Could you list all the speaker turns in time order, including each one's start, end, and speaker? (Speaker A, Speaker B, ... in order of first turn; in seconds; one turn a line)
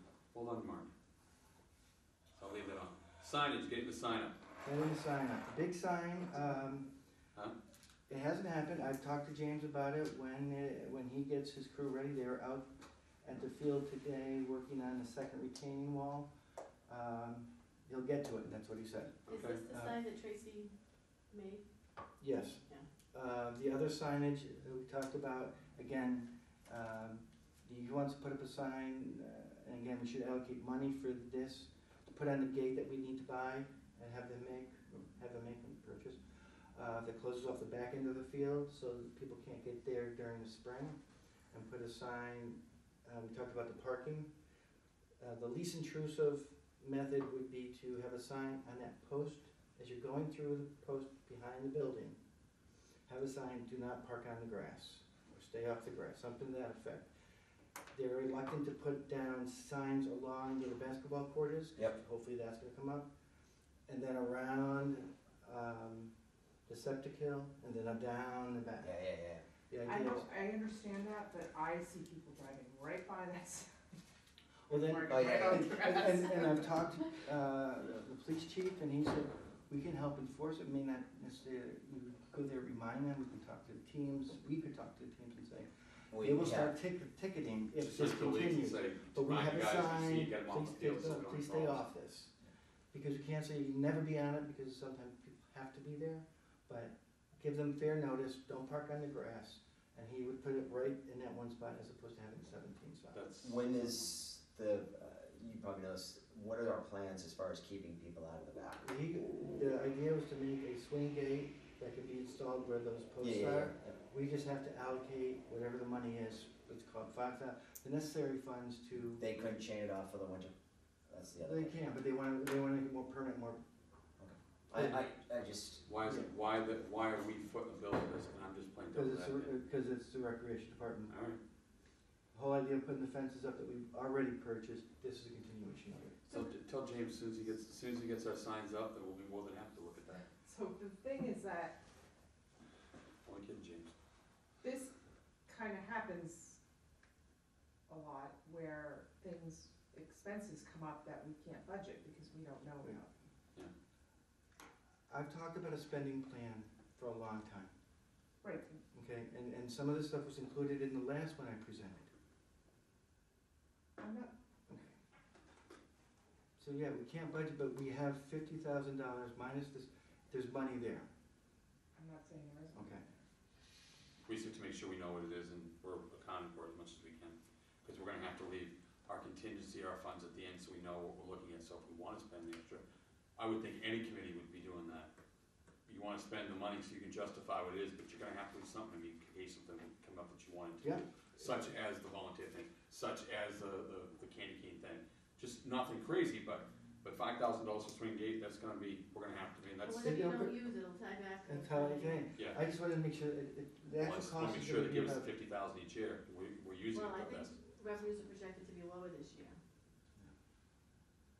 Speaker A: 0.3-0.9
Speaker A: 2.4-4.3
Speaker B: 4.6-6.9
Speaker B: 8.1-12.7
Speaker B: 13.2-16.3
Speaker B: 16.9-19.9
Speaker C: 19.3-20.7
Speaker A: 19.3-19.6
Speaker C: 21.3-21.6
Speaker B: 22.2-41.0
Speaker B: 41.5-44.3
Speaker B: 45.2-52.2
Speaker B: 53.1-57.1
Speaker B: 57.9-63.1
Speaker B: 63.9-66.1
Speaker B: 66.7-69.0
Speaker D: 68.8-69.4
Speaker B: 69.7-70.3
Speaker E: 69.8-74.0
Speaker B: 74.7-92.3
Speaker E: 74.7-76.8
Speaker D: 75.1-75.8
Speaker D: 86.1-86.7
Speaker A: 87.8-91.9
Speaker B: 92.9-103.2
Speaker A: 103.1-104.0
Speaker D: 103.4-108.8
Speaker B: 108.8-119.2
Speaker D: 113.2-114.0
Speaker D: 119.2-120.5
Speaker D: 121.1-121.7
Speaker B: 121.4-123.6
Speaker D: 124.2-125.8
Speaker A: 124.8-125.1
Speaker A: 125.8-129.5
Speaker B: 128.9-131.1
Speaker A: 131.1-131.4
Speaker B: 132.3-136.2
Speaker A: 136.3-140.2
Speaker E: 140.3-141.8
Speaker A: 143.2-143.9
Speaker E: 144.6-146.6
Speaker E: 147.9-153.0
Speaker B: 152.8-153.1
Speaker B: 155.1-157.7
Speaker E: 158.4-158.8
Speaker B: 158.9-162.1
Speaker E: 164.0-164.3
Speaker B: 164.7-165.0
Speaker B: 166.6-171.1
Speaker E: 171.9-173.2
Speaker B: 172.7-173.0
Speaker A: 174.2-182.8
Speaker A: 183.4-185.1
Speaker A: 185.8-200.2
Speaker B: 190.8-191.5
Speaker C: 199.8-202.3
Speaker B: 200.0-200.5
Speaker B: 201.5-205.3
Speaker A: 204.0-207.5
Speaker C: 206.9-209.6